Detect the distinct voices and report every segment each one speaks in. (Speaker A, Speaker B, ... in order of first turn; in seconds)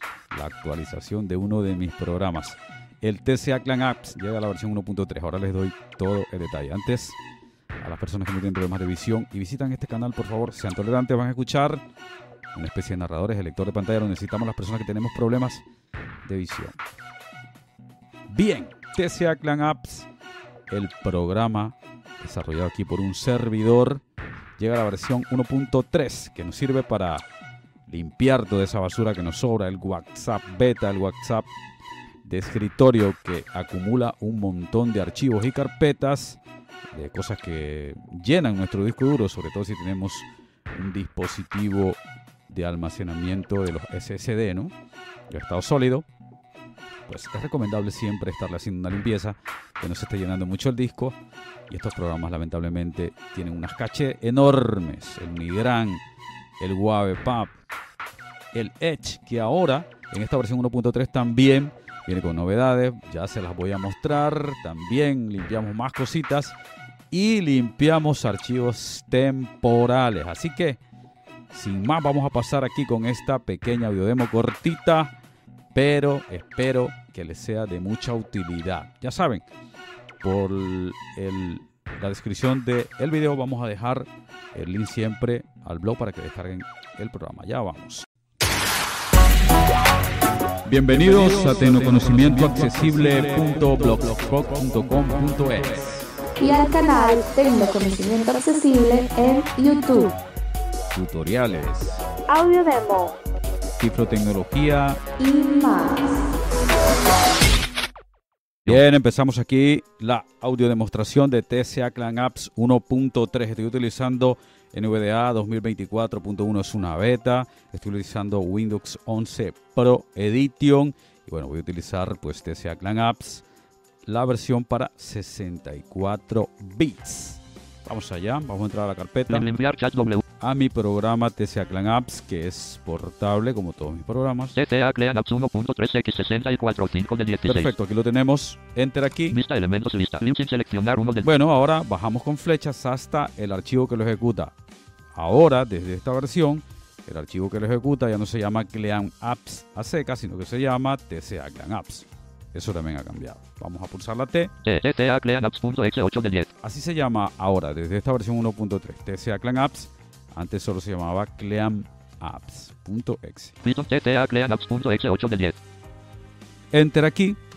Speaker A: 0.3-7.2, 7.8-11.8, 12.6-15.7, 16.2-16.8, 18.3-20.1, 20.7-24.0, 24.6-27.2, 27.9-31.5, 32.2-36.4, 36.9-44.7, 45.3-46.1, 47.1-51.2, 51.7-56.0, 56.6-57.5, 58.5-66.6, 67.1-70.8, 71.5-75.1, 75.7-79.5, 80.2-88.1, 90.7-96.1, 100.9-102.0, 103.8-105.0, 108.7-123.4, 124.1-129.5, 130.4-134.6, 137.5-139.4, 141.2-144.5, 145.2-154.5, 156.6-163.6, 166.7-167.4
Speaker B: 96.4-100.2, 102.3-103.2, 105.2-106.3
Speaker C: 129.3-130.2, 134.6-137.7, 139.3-141.3, 154.6-156.5, 163.6-165.6